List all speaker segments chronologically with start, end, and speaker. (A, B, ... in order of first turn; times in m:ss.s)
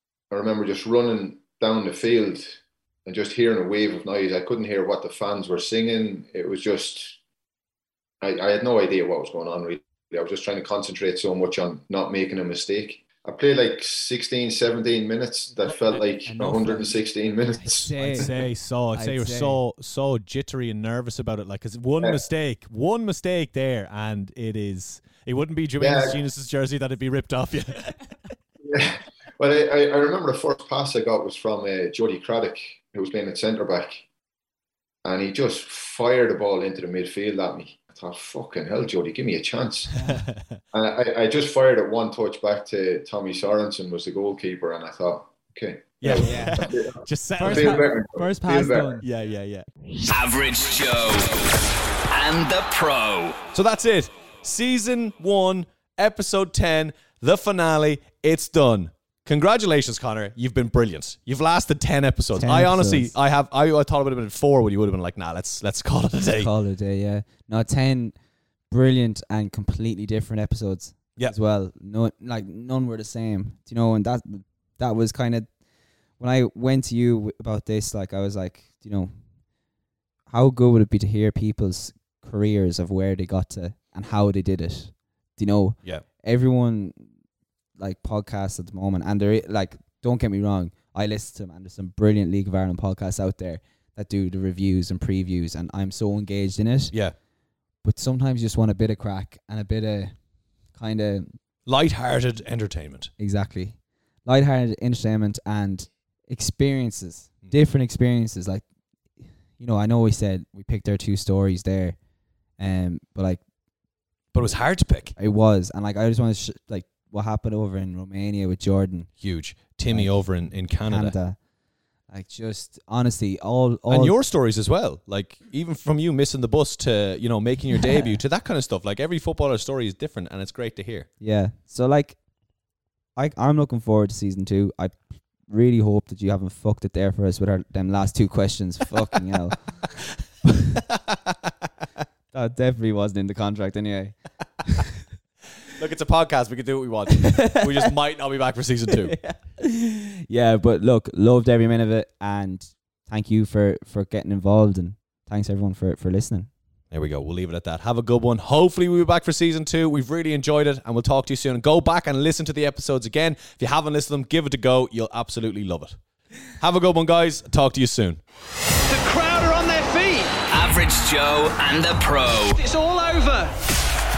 0:00.3-0:07.2 A
0:08.2-0:18.3 A
0:15.6-0:16.9 B
0:17.6-0:18.4 B
0:18.0-0:28.0 C
0:18.9-0:19.6 B
0:25.8-0:26.2 A
0:28.6-0:34.0 A
0:35.0-0:39.9 A
0:40.1-0:40.6 C
0:40.7-0:49.0 A
0:46.0-0:47.9 C
0:46.1-0:46.7 B
0:47.4-0:49.1 B
0:49.0-0:49.7 C
0:50.0-0:53.4 D
0:53.5-1:06.5 C
1:02.4-1:03.1 B
1:06.4-1:08.1 B
1:08.7-1:15.5 B
1:16.2-1:19.1 B
1:20.3-1:27.1 B
1:27.8-1:36.9 B
1:37.8-1:40.1 B
1:40.8-1:41.3 B
1:41.6-1:43.1 C
1:43.2-1:48.6 B
1:49.6-1:52.0 B
1:52.6-1:53.4 B
1:54.3-1:55.1 C
1:55.2-1:59.1 B
1:59.2-2:01.1 C
1:59.9-2:00.2 B
2:00.9-2:01.4 B
2:02.1-2:04.2 B
2:03.9-2:11.1 C
2:11.2-2:12.2 B
2:13.2-2:19.6 B
2:20.9-2:21.3 C
2:22.3-2:24.9 B
2:25.8-2:29.2 C
2:27.2-2:27.9 B
2:28.9-2:36.5 B
2:36.9-2:46.0 C
2:46.6-2:48.2 C
2:48.9-2:50.4 E
2:50.5-2:52.6 D
2:52.5-2:53.5 E